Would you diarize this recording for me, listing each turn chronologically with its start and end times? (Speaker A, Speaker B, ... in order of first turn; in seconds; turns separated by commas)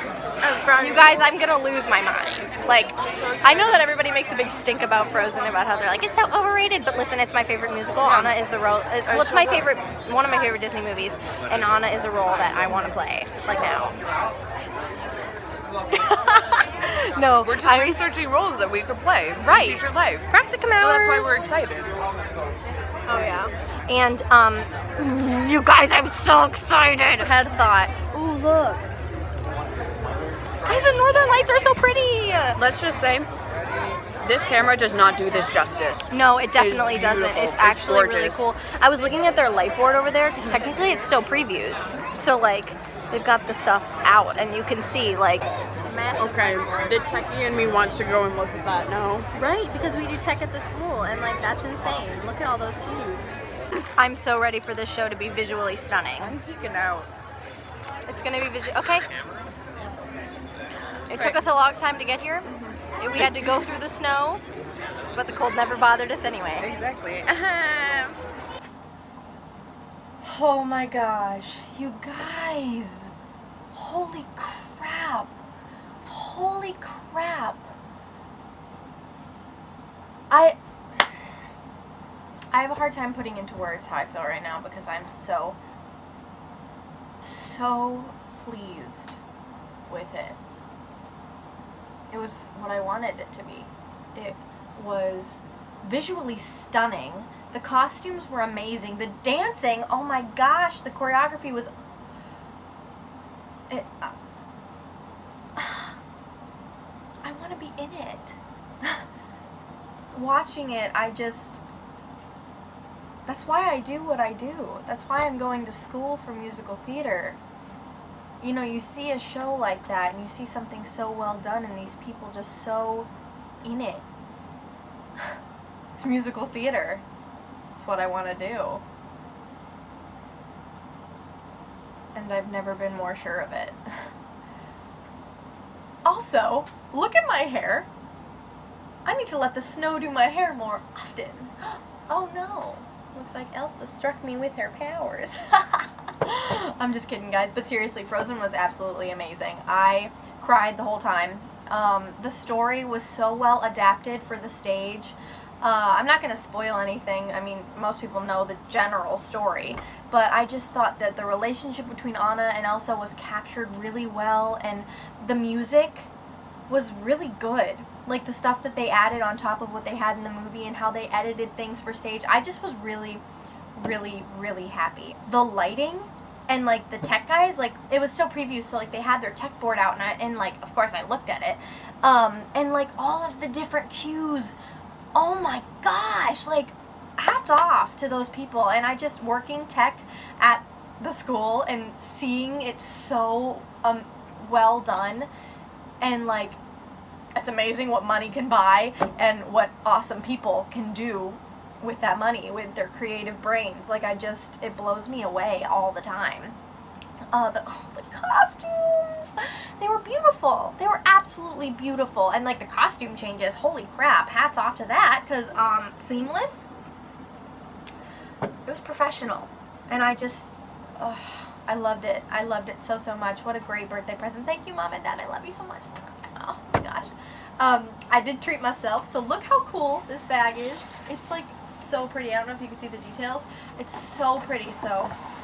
Speaker A: 0.4-1.1, Speaker B: 0.7-14.0, Speaker A: 3.0-3.9, Speaker A: 8.0-8.4, Speaker A: 9.1-9.8, Speaker B: 15.9-18.0, Speaker A: 17.4-22.0, Speaker B: 19.4-21.5, Speaker B: 23.1-28.9, Speaker B: 30.6-32.6, Speaker A: 32.6-33.3, Speaker A: 34.2-38.4, Speaker B: 36.1-47.0, Speaker A: 46.2-49.3, Speaker B: 49.4-53.4, Speaker B: 54.0-56.3, Speaker A: 56.2-57.1, Speaker B: 58.1-59.0, Speaker B: 61.1-62.5, Speaker A: 61.1-61.5, Speaker A: 62.5-63.7, Speaker B: 63.0-64.4, Speaker B: 65.2-66.7, Speaker A: 66.6-68.2, Speaker B: 70.2-73.1, Speaker B: 73.7-75.4, Speaker B: 76.1-77.7, Speaker B: 80.3-80.6, Speaker B: 82.5-85.6, Speaker B: 87.2-89.2, Speaker B: 89.9-90.4, Speaker B: 92.1-101.7, Speaker B: 103.7-104.1, Speaker B: 105.6-106.0, Speaker B: 107.2-109.0, Speaker B: 110.1-111.6, Speaker B: 113.3-117.4, Speaker B: 118.4-123.1, Speaker B: 123.6-124.0, Speaker B: 126.0-127.0, Speaker B: 127.7-128.8, Speaker B: 132.2-133.9, Speaker B: 136.1-137.9, Speaker B: 139.1-166.1, Speaker B: 166.7-173.2, Speaker B: 173.8-184.6, Speaker B: 185.2-195.3, Speaker B: 196.0-196.6, Speaker B: 197.3-206.6, Speaker B: 207.3-216.7, Speaker B: 218.7-235.1